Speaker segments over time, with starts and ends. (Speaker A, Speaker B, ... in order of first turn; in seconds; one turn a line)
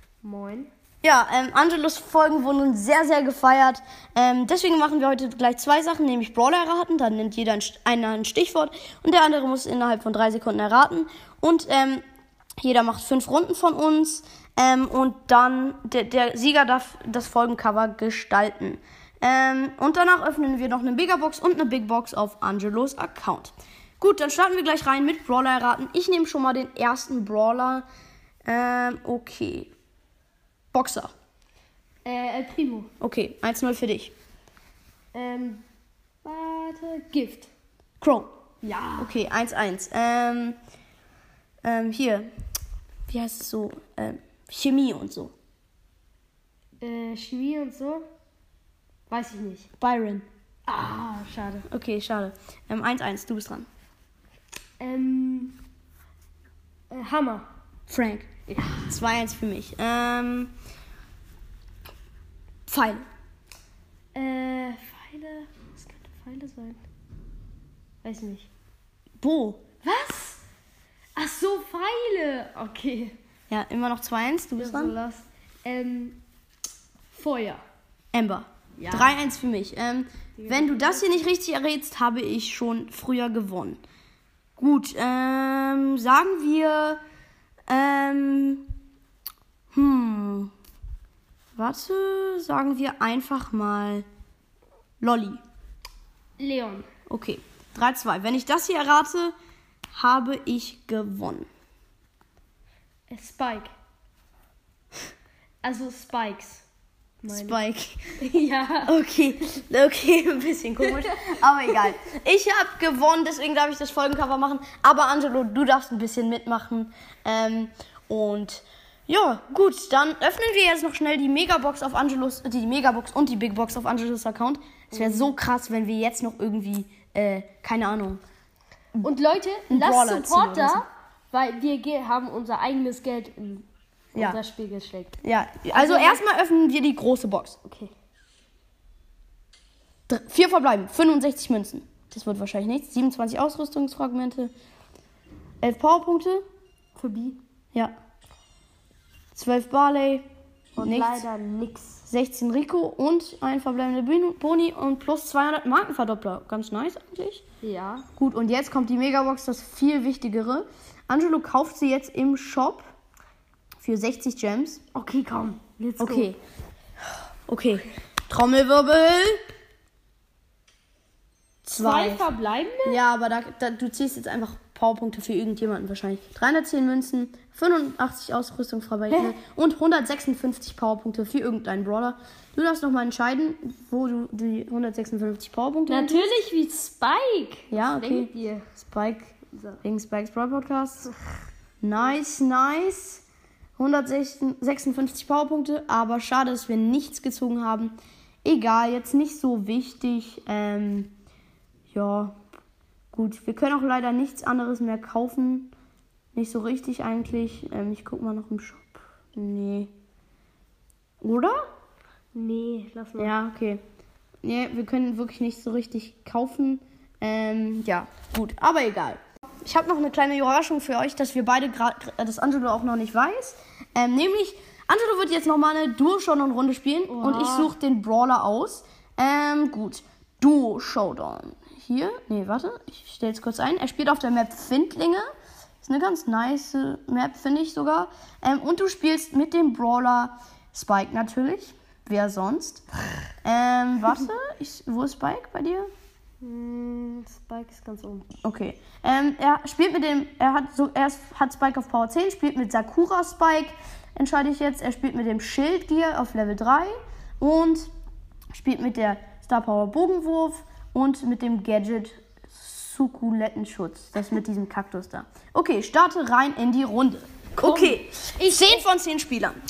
Speaker A: 0.2-0.7
Speaker B: 1.0-12.0
Speaker B: 12.6-27.8
Speaker B: 28.4-29.7
Speaker B: 30.7-31.1
Speaker A: 32.0-32.9
Speaker B: 33.0-34.1
Speaker A: 35.1-35.6
Speaker A: 36.2-37.5
Speaker B: 38.0-38.3
Speaker A: 38.6-39.1
Speaker B: 39.0-40.6
Speaker B: 41.6-42.3
Speaker B: 43.1-45.3
Speaker A: 46.8-48.0
Speaker A: 49.1-49.7
Speaker B: 49.8-50.3
Speaker A: 50.7-51.6
Speaker B: 51.7-53.7
Speaker A: 54.8-55.6
Speaker A: 56.9-57.5
Speaker B: 57.9-58.3
Speaker A: 58.5-58.9
Speaker B: 58.9-60.5
Speaker B: 62.7-63.0
Speaker A: 64.1-66.8
Speaker A: 68.0-68.5
Speaker B: 69.2-69.7
Speaker A: 69.8-70.4
Speaker A: 71.2-73.2
Speaker B: 73.5-74.9
Speaker A: 74.6-76.2
Speaker A: 77.1-77.6
Speaker B: 78.1-83.8
Speaker A: 78.8-79.2
Speaker A: 80.4-81.1
Speaker B: 84.6-87.0
Speaker B: 87.7-88.7
Speaker B: 89.7-90.5
Speaker B: 91.6-94.1
Speaker B: 95.0-95.4
Speaker A: 96.4-96.9
Speaker B: 97.1-99.3
Speaker B: 99.9-101.5
Speaker A: 103.1-103.7
Speaker A: 105.6-106.6
Speaker A: 107.2-107.6
Speaker B: 107.3-108.2
Speaker A: 108.2-108.9
Speaker B: 108.8-128.2
Speaker A: 125.0-125.3
Speaker A: 129.0-135.2
Speaker B: 129.7-130.8
Speaker B: 135.2-137.6
Speaker A: 135.7-136.2
Speaker A: 137.6-137.9
Speaker B: 140.1-144.5
Speaker B: 145.6-146.4
Speaker A: 146.9-147.4
Speaker B: 149.3-150.2
Speaker A: 150.8-152.0
Speaker B: 150.8-151.2
Speaker B: 152.0-157.4
Speaker A: 157.6-158.1
Speaker B: 158.2-162.9
Speaker B: 163.8-164.8
Speaker A: 164.9-166.3
Speaker B: 166.0-166.4
Speaker B: 167.5-169.4
Speaker B: 171.7-172.2
Speaker A: 171.7-173.0
Speaker B: 172.8-186.3
Speaker A: 185.9-188.6
Speaker B: 187.7-191.1
Speaker A: 189.5-189.8
Speaker B: 191.8-193.2
Speaker B: 193.8-201.1
Speaker B: 201.9-202.4
Speaker B: 203.1-205.7
Speaker B: 206.3-209.9
Speaker B: 211.2-211.7
Speaker A: 212.3-213.3
Speaker B: 213.2-213.8
Speaker B: 214.4-235.3
Speaker A: 227.1-227.7
Speaker B: 235.8-242.8
Speaker B: 243.4-245.9
Speaker A: 246.4-248.3
Speaker B: 248.4-257.9
Speaker B: 258.5-269.6
Speaker A: 267.6-268.9